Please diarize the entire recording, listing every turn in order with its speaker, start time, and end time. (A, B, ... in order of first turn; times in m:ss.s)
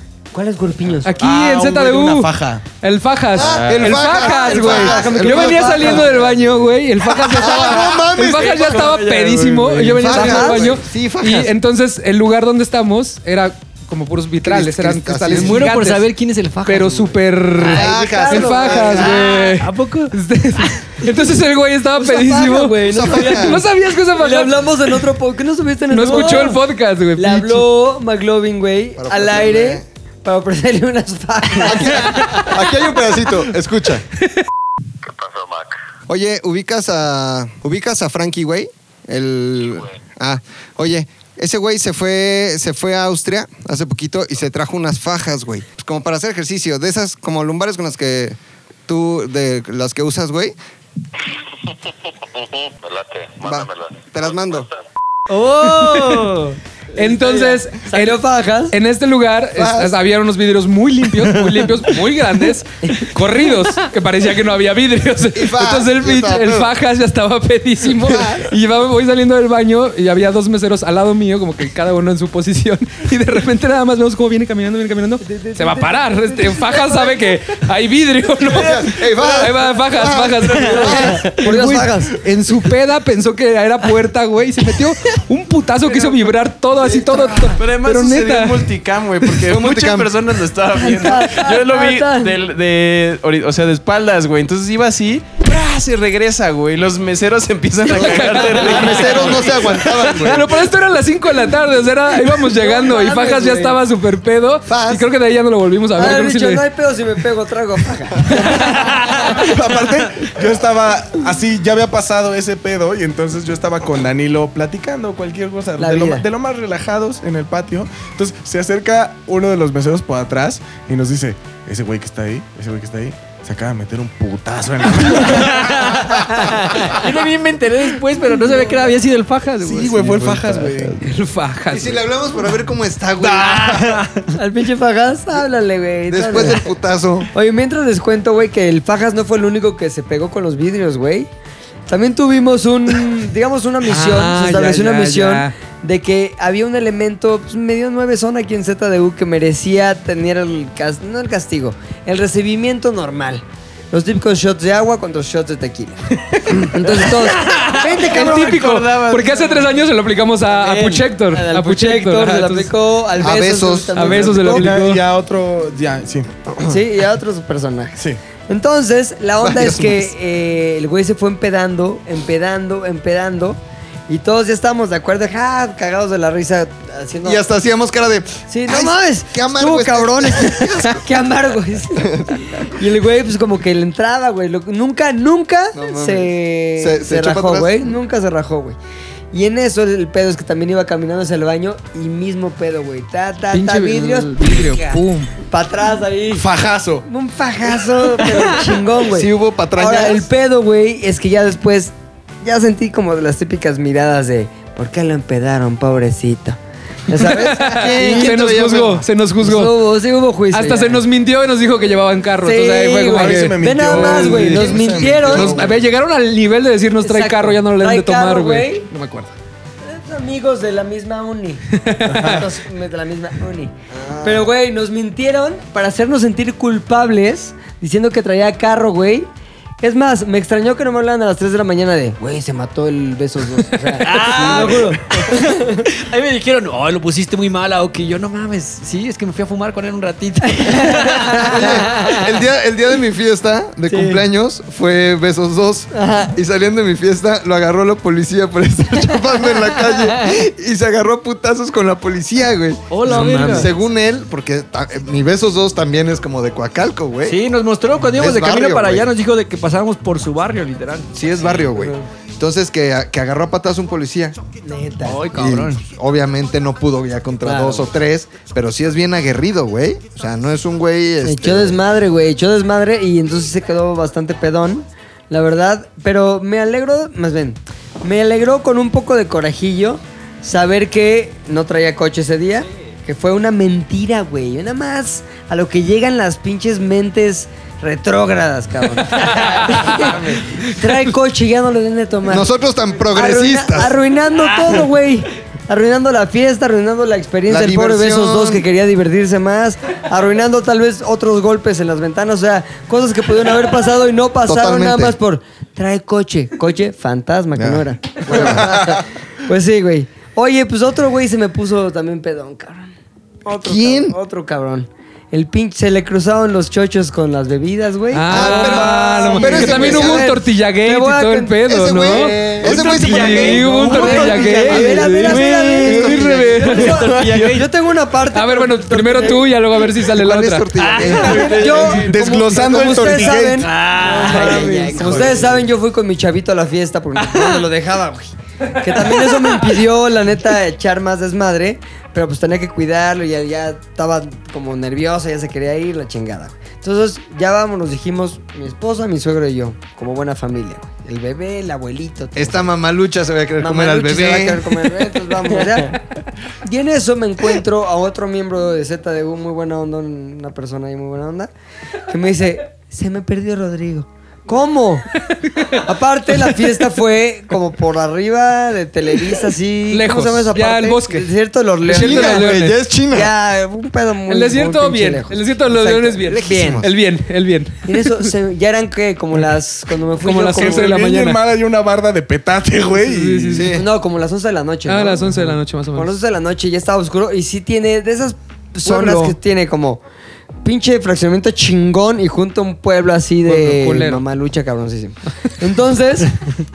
0:00.3-0:01.1 A
0:01.0-0:16.1 B
0:01.2-0:02.6 C
0:03.3-0:06.2 D
0:03.4-0:04.2 E
0:04.1-0:06.3 A
0:06.1-0:06.6 E
0:07.0-0:08.9 D
0:08.2-0:10.0 E
0:10.0-0:11.5 D
0:10.1-0:10.6 A
0:14.4-0:15.7 D
0:15.3-0:17.2 F
0:16.6-0:24.7 B
0:17.6-0:19.3 D
0:17.6-0:19.4 A
0:19.4-0:20.1 F
0:22.0-0:26.6 A
0:22.9-0:23.6 D
0:25.9-0:27.7 B
0:27.2-0:32.5 A
0:29.0-0:29.8 D
0:31.6-0:34.0 D
0:36.1-0:50.5 D
0:53.4-0:54.7 D
0:55.3-0:56.5 F
0:55.6-0:56.3 A
0:57.0-1:28.7 B
0:57.0-0:58.7 A
0:59.6-0:59.9 D
1:05.3-1:06.7 D
1:15.2-1:17.3 A
1:18.4-1:21.3 D
1:20.6-1:22.1 A
1:26.8-1:27.6 D
1:27.6-1:40.3 E
1:29.4-1:30.1 D
1:30.8-1:32.3 A
1:37.8-1:39.2 B
1:37.9-1:40.5 D
1:40.0-1:46.6 B
1:42.3-1:43.8 A
1:44.7-1:45.1 D
1:45.9-1:48.7 A
1:48.3-1:49.3 B
1:48.4-2:06.1 C
1:55.8-1:56.2 A
2:05.2-2:10.2 F
2:09.6-2:11.0 C
2:09.9-2:11.0 E
2:11.0-2:12.0 B
2:11.7-2:14.0 D
2:13.2-2:13.9 C
2:13.6-2:14.2 F
2:14.3-2:16.7 A
2:16.1-2:17.3 D
2:17.3-2:21.3 A
2:21.9-2:38.7 A
2:23.8-2:25.5 B
2:37.8-2:42.7 B
2:37.9-2:39.8 E
2:40.4-2:44.7 A
2:43.2-2:44.2 D
2:43.9-2:45.0 B
2:44.2-2:46.3 C
2:46.6-2:57.4 A
2:49.4-2:50.1 D
2:57.2-3:01.2 D
2:58.5-3:08.8 A
3:02.0-3:02.7 D
3:05.7-3:07.9 D
3:09.3-3:16.4 A
3:13.5-3:15.3 B
3:16.3-3:17.0 C
3:17.0-3:28.4 A
3:19.1-3:20.3 D
3:27.2-3:29.8 B
3:27.5-3:29.0 D
3:29.4-3:31.0 A
3:30.5-3:39.3 B
3:32.4-3:35.7 A
3:33.1-3:35.8 C
3:34.7-3:35.7 D
3:37.0-3:38.8 A
3:39.8-3:49.3 A
3:41.7-3:42.4 B
3:42.1-3:42.4 C
3:43.9-3:44.5 D
3:49.8-3:55.8 A
3:54.0-4:01.6 F
3:54.4-3:54.8 D
4:01.0-4:01.6 A
4:01.4-4:17.4 D
4:03.9-4:04.2 A
4:05.9-4:06.3 A
4:12.9-4:13.7 F
4:13.1-4:13.7 A
4:17.2-4:21.1 F
4:18.1-4:19.1 D
4:21.1-4:24.4 D
4:24.6-4:25.2 A
4:25.0-4:25.8 F
4:25.3-4:31.8 D
4:27.4-4:27.8 A
4:31.2-4:52.5 A
4:49.1-4:51.0 B
4:52.2-4:53.9 D
4:53.1-5:12.9 A
4:57.5-4:58.6 D
5:04.5-5:05.2 D
5:07.6-5:09.0 D
5:13.4-5:22.3 A
5:13.5-5:14.2 D
5:18.1-5:27.0 B
5:18.3-5:20.3 D
5:21.6-5:25.3 D
5:22.6-5:27.6 E
5:23.1-5:29.5 A
5:25.8-5:26.1 D
5:27.2-5:27.6 F
5:28.3-5:30.7 B
5:30.1-5:31.6 D
5:30.8-5:31.6 F
5:30.9-5:32.2 E
5:31.2-5:52.7 A
5:31.6-5:33.7 C
5:33.6-5:35.3 F
5:34.1-5:35.4 E
5:35.0-5:35.3 D
5:52.3-5:54.7 D
5:53.6-5:56.0 A
5:56.6-6:01.5 A
6:02.1-6:05.1 A
6:05.3-6:05.8 B
6:05.7-6:12.5 A
6:09.9-6:11.3 B
6:11.8-6:12.8 B
6:11.9-6:13.3 D
6:13.1-6:16.8 A
6:14.3-6:18.3 B
6:16.3-6:16.9 D
6:17.8-6:20.9 A
6:20.2-6:21.4 B
6:20.5-6:23.7 C
6:23.0-6:23.8 B
6:23.5-6:23.8 D
6:23.7-6:30.0 A
6:24.8-6:26.1 B
6:28.8-6:29.4 B
6:30.6-6:36.3 A
6:33.4-6:34.2 B